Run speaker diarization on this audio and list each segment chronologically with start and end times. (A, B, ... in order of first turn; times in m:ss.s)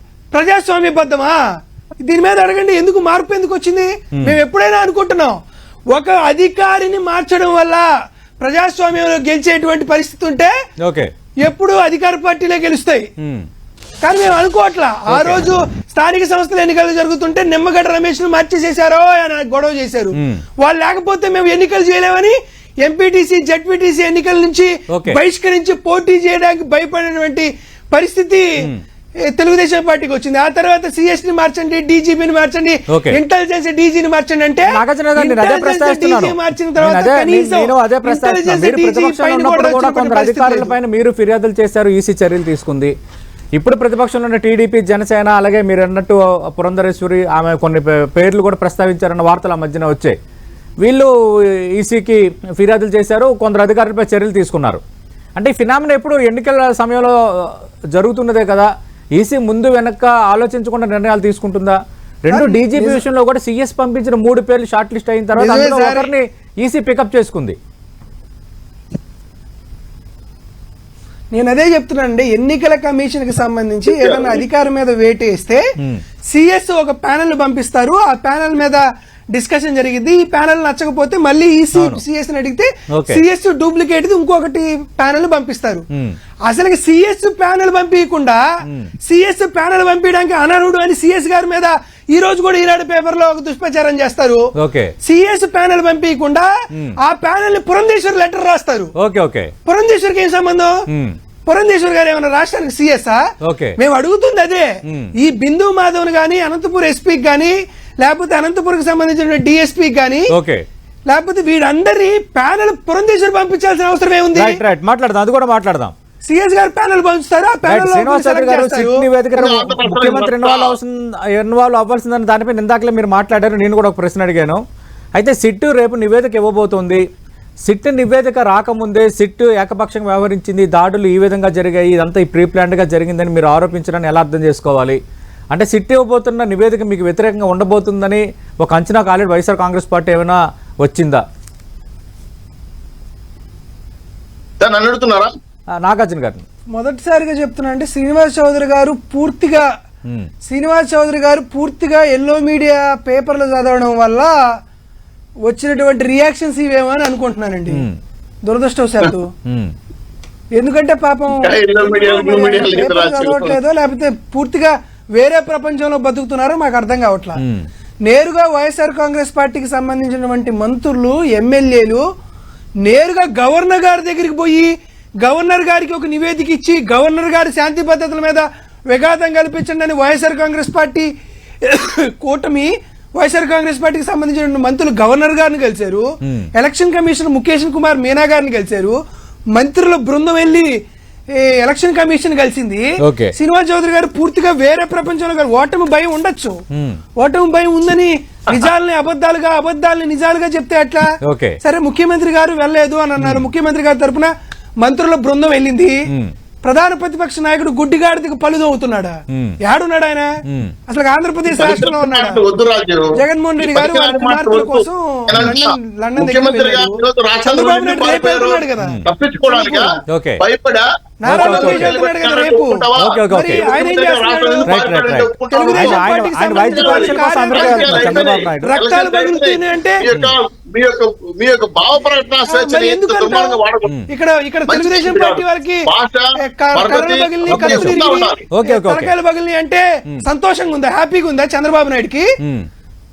0:00.3-0:01.4 A
0:02.0-0:05.4 A
0:05.9-0:07.8 A
0:08.4-0:10.5 A
0:10.8-0:11.1 B
0:11.4-0:13.1 A
0:13.2-0:13.4 B
0:14.0-0:28.5 A
0:15.1-0:15.4 B
0:20.1-0:20.4 B
0:24.9-0:25.2 B
0:29.3-0:40.7 A
0:32.9-0:33.2 B
0:34.7-0:42.9 B
0:43.5-0:50.2 B
0:50.8-0:51.1 B
0:51.7-0:54.8 B
0:55.4-1:07.6 B
1:02.3-1:03.0 A
1:05.4-1:06.1 A
1:11.3-1:15.6 A
1:13.8-1:14.4 C
1:16.3-1:25.8 A
1:21.7-1:22.0 B
1:22.9-1:23.2 B
1:26.4-1:28.4 A
1:29.0-1:34.5 A
1:34.6-1:34.9 B
1:35.0-1:36.5 A
1:37.0-1:38.9 A
1:39.0-1:39.5 B
1:39.6-1:40.7 A
1:40.9-1:41.2 B
1:41.5-1:43.2 A
1:43.4-1:43.8 B
1:43.8-1:50.3 A
1:50.3-1:50.6 B
1:51.1-1:54.6 A
1:54.3-1:55.9 B
1:56.2-1:59.0 A
1:57.7-2:04.6 B
1:59.3-2:00.8 C
2:05.2-2:07.0 B
2:07.6-2:15.0 B
2:15.5-2:21.2 B
2:24.6-2:25.3 C
2:25.8-2:26.4 B
2:26.7-2:29.6 A
2:30.4-2:34.3 A
2:35.4-2:37.8 A
2:37.7-2:38.0 B
2:38.4-2:39.3 A
2:39.4-2:39.7 B
2:40.5-2:47.4 A
2:41.4-2:43.6 C
2:47.4-2:47.6 B
2:48.0-2:52.0 A
2:52.8-3:01.1 A
3:01.6-3:09.0 A
3:09.5-3:10.7 A
3:11.3-3:16.6 A
3:13.0-3:13.3 B
3:16.7-3:17.0 B
3:17.2-3:21.1 A
3:21.2-3:21.6 B
3:21.6-3:26.0 A
3:23.2-3:23.4 B
3:26.6-3:30.3 A
3:29.3-3:29.6 B
3:30.5-3:30.7 B
3:30.9-3:32.4 A
3:31.6-3:46.0 C
3:33.1-3:39.9 A
3:40.1-3:40.4 B
3:41.2-3:44.9 A
3:41.3-3:42.0 B
3:43.0-3:43.6 B
3:44.7-3:48.7 B
3:45.5-3:50.0 A
3:46.6-3:53.9 C
3:52.5-4:02.3 A
3:54.7-3:58.4 C
3:57.5-3:58.0 B
3:58.5-3:59.1 B
4:02.4-4:02.7 B